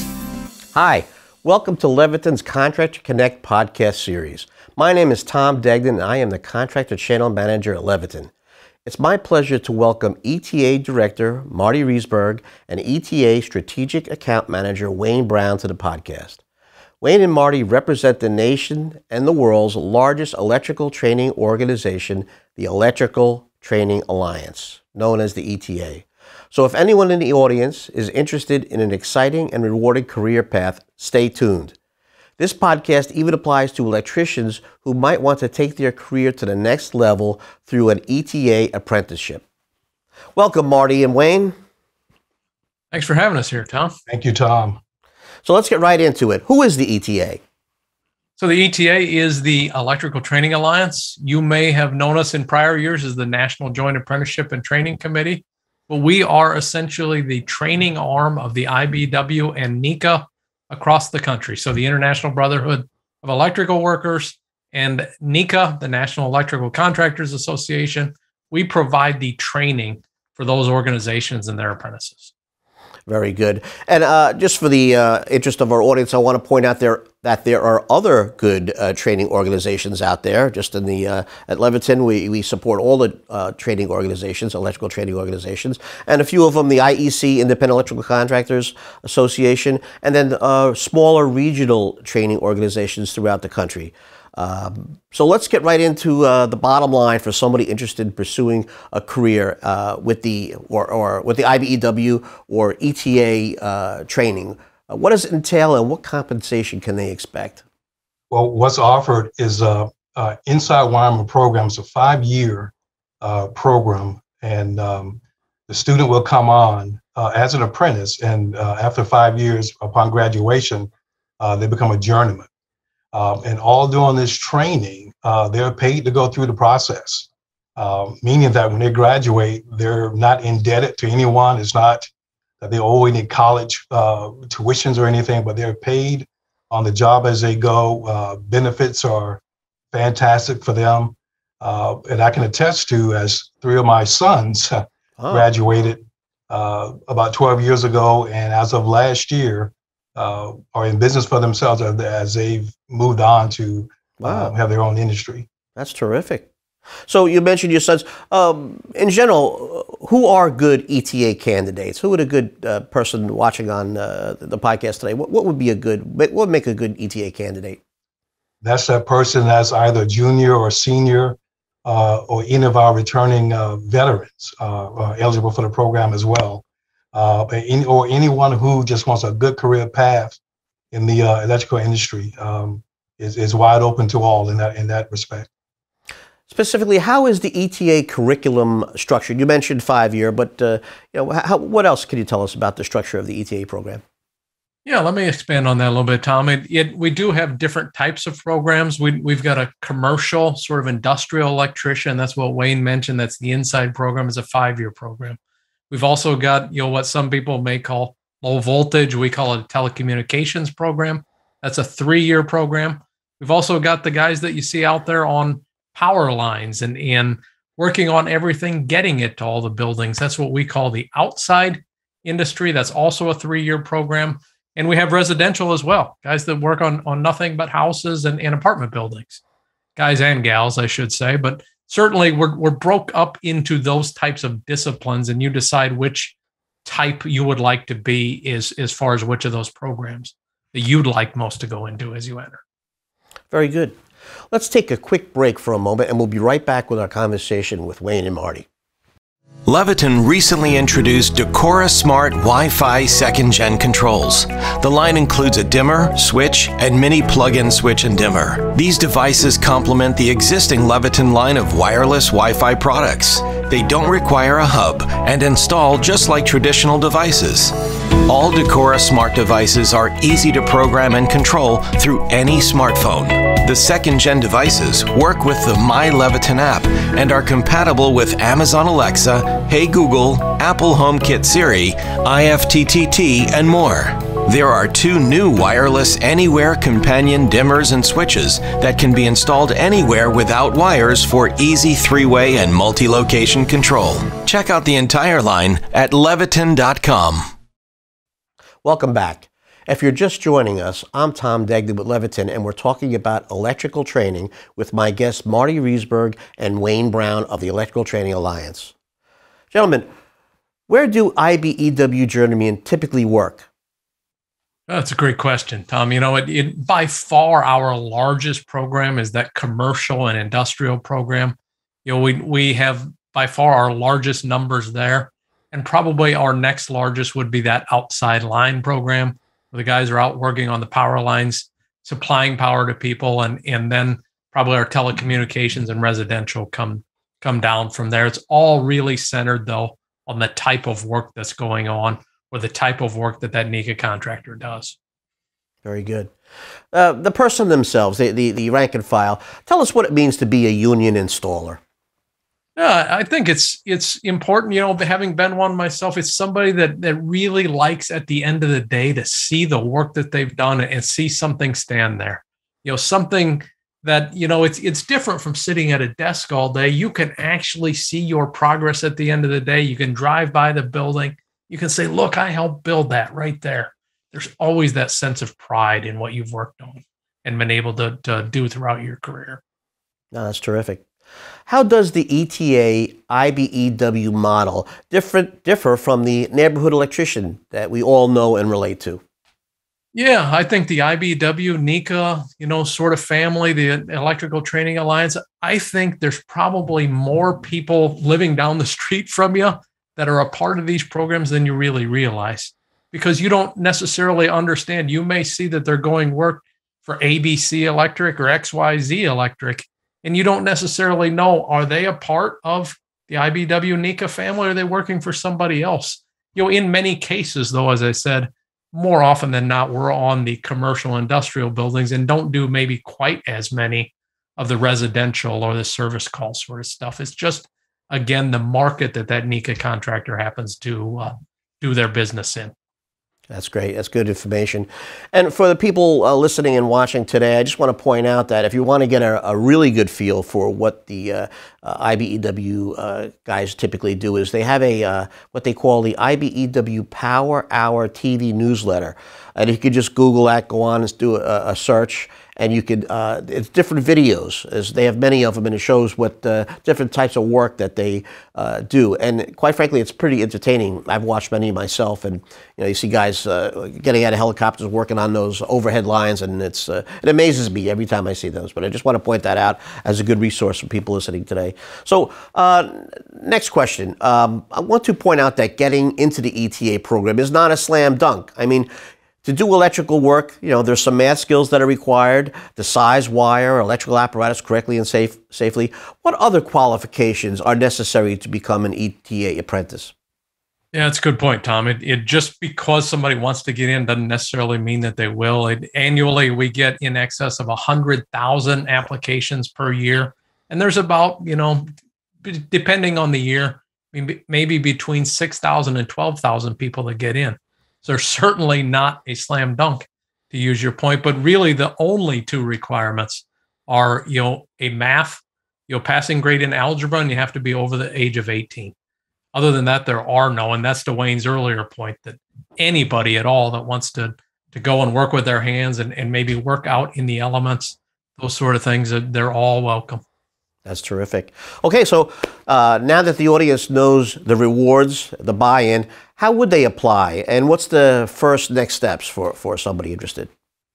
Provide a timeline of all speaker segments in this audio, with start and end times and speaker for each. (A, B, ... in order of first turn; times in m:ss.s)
0:00.7-0:08.3 A
0:08.8-0:16.4 A
0:17.0-0:31.8 A
0:32.4-0:39.4 A
0:40.4-0:41.5 A
0:42.9-0:44.0 B
0:44.1-0:44.8 C
0:45.4-0:47.4 A
0:48.4-1:12.3 B
1:13.1-1:47.6 A
1:48.3-2:02.5 C
2:03.1-2:12.1 C
2:12.6-2:35.5 C
2:25.2-2:25.5 A
2:34.2-2:34.5 A
2:35.8-2:36.5 A
2:37.1-2:47.8 A
2:48.6-3:00.4 C
3:00.9-3:05.5 C
3:06.5-3:14.0 A
3:14.8-3:25.4 B
3:25.9-3:49.4 B
3:50.0-4:02.6 B
4:03.5-4:04.0 A
4:04.5-4:08.7 A
4:09.7-4:27.7 D
4:28.2-4:57.4 D
4:58.8-5:08.9 A
5:09.7-5:10.1 A
5:10.9-5:13.7 A
5:14.9-5:45.0 B
5:45.8-5:46.3 A
5:46.9-5:51.8 A
5:52.8-6:19.6 B
6:20.3-6:21.1 A
6:21.7-6:29.2 A
6:30.1-7:12.7 B
7:13.5-7:58.9 A
7:59.4-8:10.1 A
8:10.9-8:21.8 B
8:22.4-8:39.0 B
8:39.5-8:50.2 B
8:50.9-9:00.5 A